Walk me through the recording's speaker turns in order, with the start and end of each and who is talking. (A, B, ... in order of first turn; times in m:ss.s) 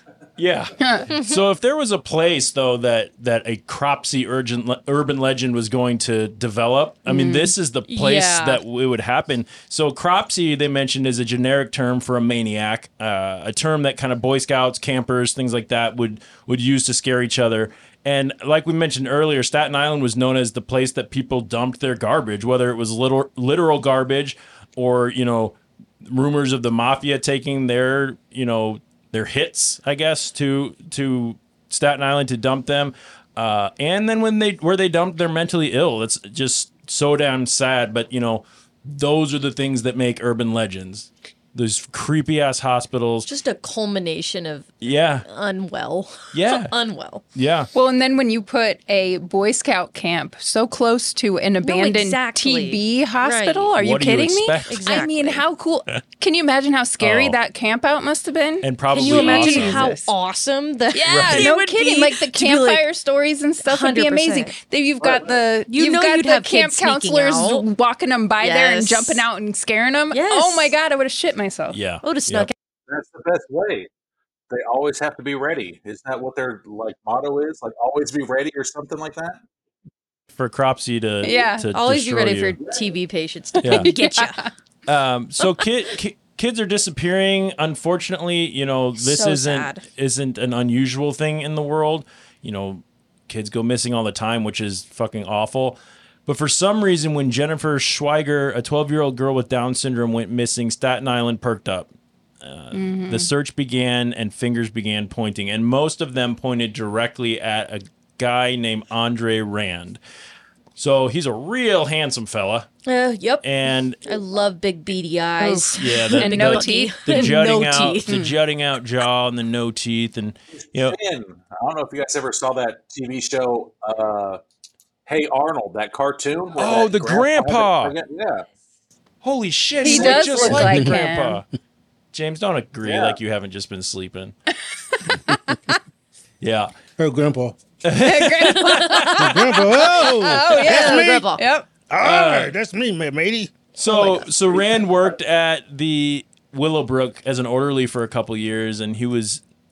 0:00.4-0:43.3 A
0:00.8-0:01.1 B
0:01.1-0:01.4 C
0:07.0-0:07.5 B
0:07.9-0:08.6 C
0:43.3-0:44.7 C
0:44.8-0:45.2 A
0:45.3-0:47.2 C
0:46.3-0:46.7 A
0:47.4-0:47.7 A
0:47.7-1:00.1 B
0:51.6-0:53.7 C
0:53.8-0:54.8 A
0:54.7-0:55.4 C
0:57.0-0:57.4 A
0:58.6-0:59.9 A
0:58.9-1:02.8 C
1:00.9-1:11.8 B
1:01.1-1:01.5 A
1:03.6-1:04.6 C
1:05.7-1:07.7 C
1:08.4-1:09.3 C
1:10.1-1:10.8 C
1:11.7-1:12.5 A
1:12.0-1:12.5 C
1:12.9-1:13.9 D
1:14.5-1:19.4 D
1:20.3-1:22.6 A
1:21.2-1:21.7 B
1:21.7-1:24.4 C
1:23.6-1:23.9 A
1:23.6-1:24.5 B
1:24.9-1:41.9 A
1:29.0-1:29.9 C
1:42.4-1:50.0 A
1:42.7-1:43.3 B
1:50.8-1:52.7 A
1:52.9-1:53.4 C
1:53.4-1:54.0 A
1:54.0-1:58.1 C
1:55.4-1:57.3 B
1:55.8-2:01.0 A
1:58.1-1:58.3 B
2:00.6-2:04.4 D
2:05.1-2:08.4 D
2:06.6-2:08.0 A
2:09.2-2:11.4 A
2:09.8-2:11.4 B
2:09.8-2:10.6 D
2:10.6-2:11.0 E
2:12.1-2:14.4 A
2:12.8-2:13.2 D
2:16.4-2:16.7 A
2:17.0-2:17.6 E
2:17.8-2:19.1 A
2:18.0-2:19.1 B
2:18.5-2:21.4 C
2:19.2-2:21.3 E
2:20.0-2:21.7 B
2:21.9-2:23.7 E
2:22.0-2:22.5 A
2:23.8-2:29.4 A
2:23.9-2:24.2 C